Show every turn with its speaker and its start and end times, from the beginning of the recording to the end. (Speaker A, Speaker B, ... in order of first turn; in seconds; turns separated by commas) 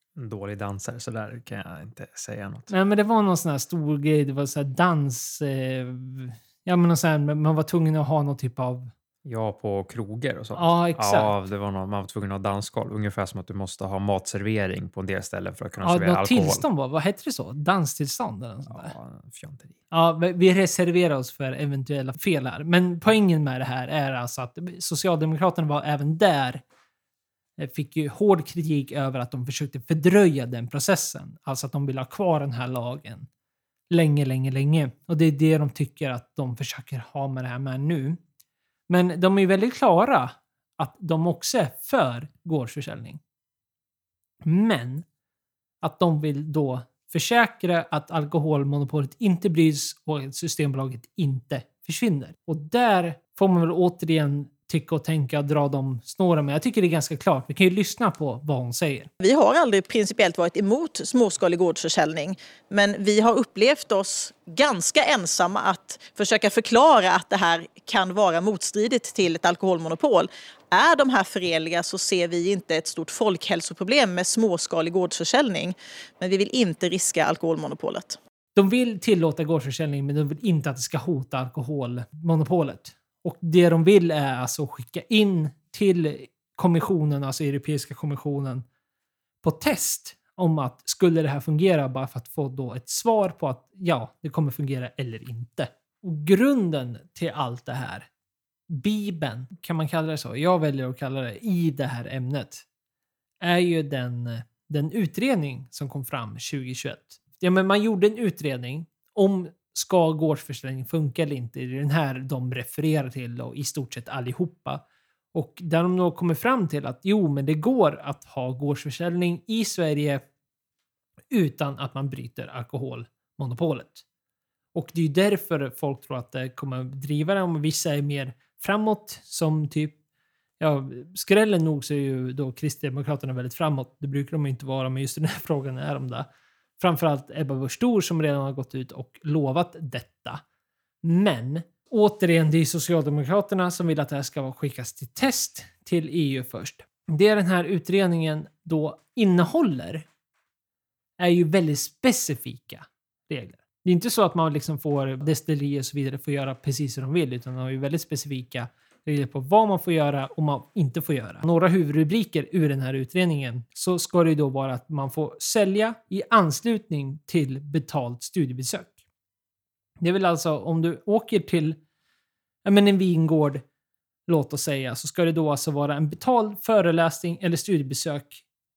Speaker A: 0.1-2.7, Speaker B: 2.7-8.9, Speaker A: 9.2-16.6, Speaker B: 10.6-11.3, Speaker B: 15.8-18.9, Speaker A: 18.7-19.8, Speaker B: 19.9-26.6, Speaker B: 27.6-33.3, Speaker B: 33.9-38.2, Speaker B: 38.9-43.2, Speaker B: 44.4-45.0, Speaker B: 45.8-59.1, Speaker C: 59.2-78.2, Speaker B: 78.5-88.6, Speaker B: 89.4-98.1, Speaker B: 98.7-102.6, Speaker B: 103.4-114.8, Speaker B: 115.3-120.2, Speaker B: 121.3-124.0, Speaker B: 124.7-129.9, Speaker B: 130.6-136.3, Speaker B: 136.8-140.4, Speaker B: 141.0-150.1, Speaker B: 151.2-168.9, Speaker B: 170.0-171.8, Speaker B: 172.7-173.6, Speaker B: 174.3-178.4